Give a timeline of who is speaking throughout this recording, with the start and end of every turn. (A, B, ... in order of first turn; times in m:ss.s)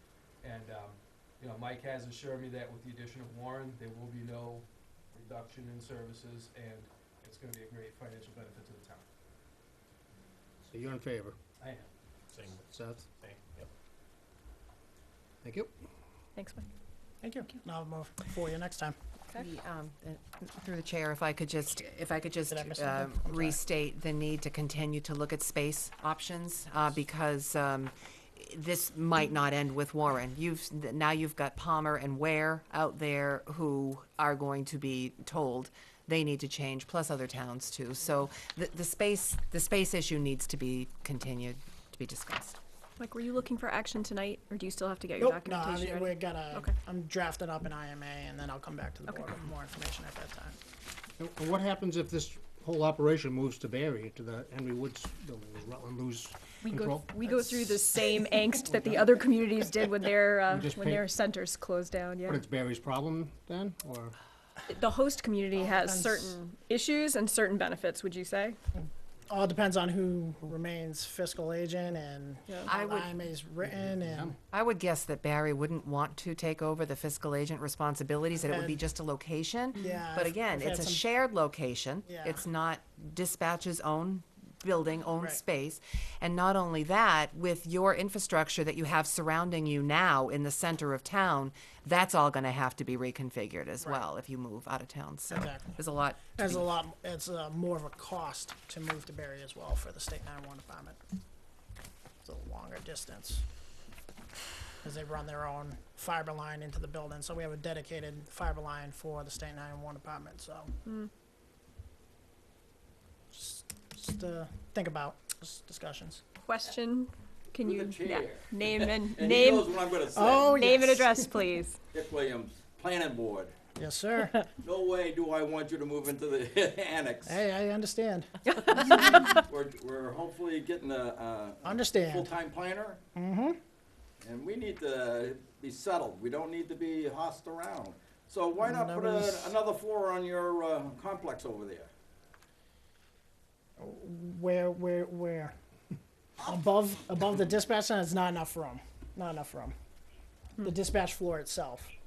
0:00.4-0:09.0 A
0:10.6-0:11.4 B
0:11.6-0:11.9 A
0:12.6-0:13.1 B
0:15.4-0:15.7 B
0:16.3-0:16.7 C
0:17.2-0:19.0 D
0:19.4-0:42.6 E
0:22.5-0:23.6 D
0:43.0-0:46.7 C
0:45.2-0:50.6 D
0:49.1-0:49.3 C
0:51.2-0:57.5 B
0:56.6-1:02.4 C
1:00.5-1:01.0 B
1:02.2-1:04.1 B
1:04.7-1:08.6 C
1:05.6-1:06.4 D
1:09.3-1:14.4 D
1:12.7-1:13.1 E
1:13.6-1:14.4 B
1:14.5-1:36.7 E
1:18.5-1:18.8 D
1:19.8-1:21.0 D
1:22.1-1:22.4 D
1:35.3-1:35.7 D
1:36.4-1:41.0 D
1:42.2-1:43.4 D
1:44.8-1:50.7 D
1:53.3-1:56.2 D
1:56.4-2:01.8 C
1:57.7-2:00.3 F
2:00.1-2:01.3 D
2:01.9-2:03.5 F
2:03.8-2:04.5 D
2:04.6-2:07.3 F
2:07.2-2:08.3 D
2:08.5-2:09.4 C
2:09.5-2:13.0 F
2:11.6-2:12.3 D
2:13.1-2:13.6 D
2:14.2-2:21.9 F
2:18.6-2:19.5 D
2:23.8-2:25.5 D
2:26.4-2:29.8 D
2:30.6-2:31.9 D